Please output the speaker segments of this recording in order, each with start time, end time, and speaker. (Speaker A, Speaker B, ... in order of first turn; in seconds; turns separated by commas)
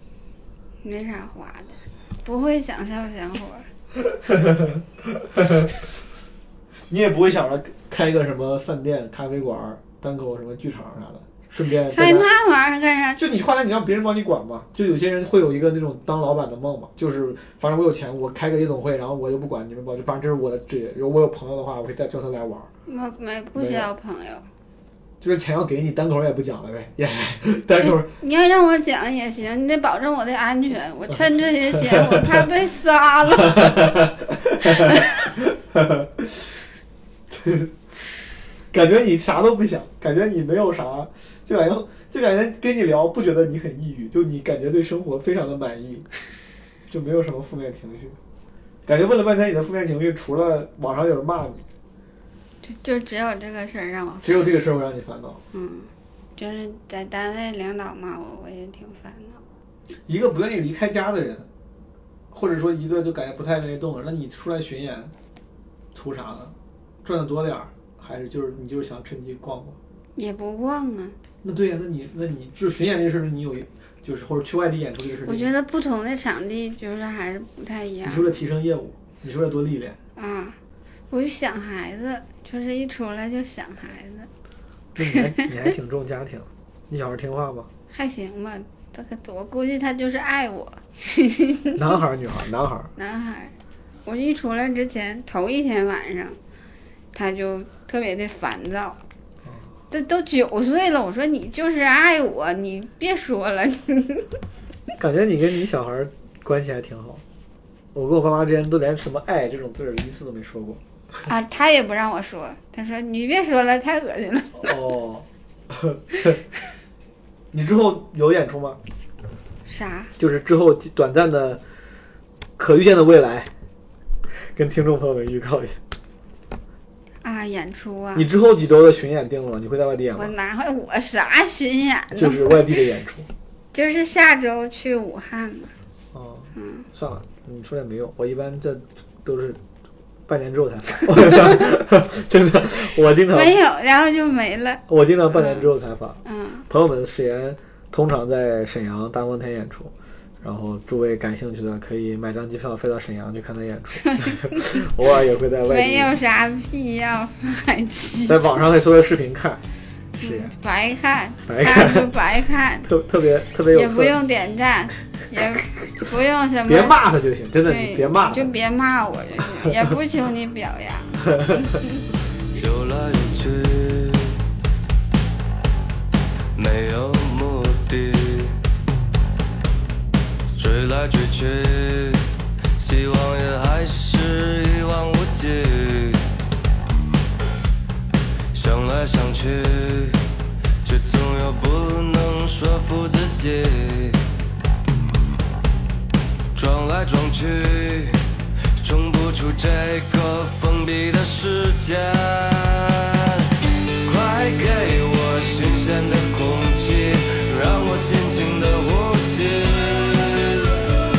Speaker A: 0.8-3.7, Speaker B: 4.3-5.8, Speaker B: 6.9-12.3, Speaker A: 11.9-13.2, Speaker B: 13.2-22.7, Speaker A: 22.9-24.4, Speaker B: 23.5-23.9, Speaker B: 25.2-28.1, Speaker A: 27.8-33.9, Speaker B: 31.7-32.4, Speaker B: 33.4-36.5, Speaker A: 34.8-35.1, Speaker B: 37.3-37.7, Speaker B: 38.7-46.1, Speaker B: 46.9-48.2, Speaker B: 48.9-51.6, Speaker A: 52.6-54.5, Speaker B: 54.2-55.4, Speaker A: 55.5-59.4, Speaker B: 60.1-61.5, Speaker B: 62.3-65.1, Speaker B: 65.9-69.8, Speaker A: 70.2-71.2, Speaker B: 71.4-75.5, Speaker A: 75.2-78.4, Speaker B: 78.0-80.0, Speaker A: 80.2-80.6, Speaker A: 81.1-84.3, Speaker B: 84.9-87.7, Speaker A: 85.0-85.5, Speaker A: 87.9-92.0, Speaker B: 91.8-92.9, Speaker A: 93.0-93.5, Speaker A: 94.0-96.4, Speaker A: 97.1-99.0, Speaker A: 99.9-104.3, Speaker B: 105.0-107.2, Speaker B: 107.9-111.2, Speaker A: 111.2-114.8, Speaker B: 114.6-116.4, Speaker B: 117.5-118.8, Speaker A: 119.7-120.1, Speaker B: 120.2-121.6, Speaker B: 122.6-123.5, Speaker B: 124.3-125.8, Speaker A: 127.2-128.3, Speaker B: 128.1-130.3, Speaker A: 130.1-132.8, Speaker B: 132.1-133.3, Speaker A: 133.7-135.7, Speaker B: 136.1-139.6, Speaker A: 136.5-136.8, Speaker B: 140.3-143.6, Speaker A: 143.3-145.7, Speaker B: 144.9-156.1, Speaker A: 146.2-146.7, Speaker A: 154.0-154.8, Speaker A: 155.7-158.5, Speaker B: 158.2-159.6, Speaker A: 160.2-162.9, Speaker B: 160.2-160.5, Speaker B: 161.4-162.1, Speaker B: 162.8-164.2, Speaker A: 163.7-167.0, Speaker B: 166.7-168.5, Speaker A: 167.6-171.9, Speaker B: 171.2-171.8, Speaker C: 172.5-174.4, Speaker C: 176.5-178.6, Speaker C: 180.5-182.2, Speaker C: 182.8-186.2, Speaker C: 188.5-190.2, Speaker C: 190.8-194.2, Speaker C: 196.5-198.2, Speaker C: 198.7-203.5, Speaker C: 204.0-210.8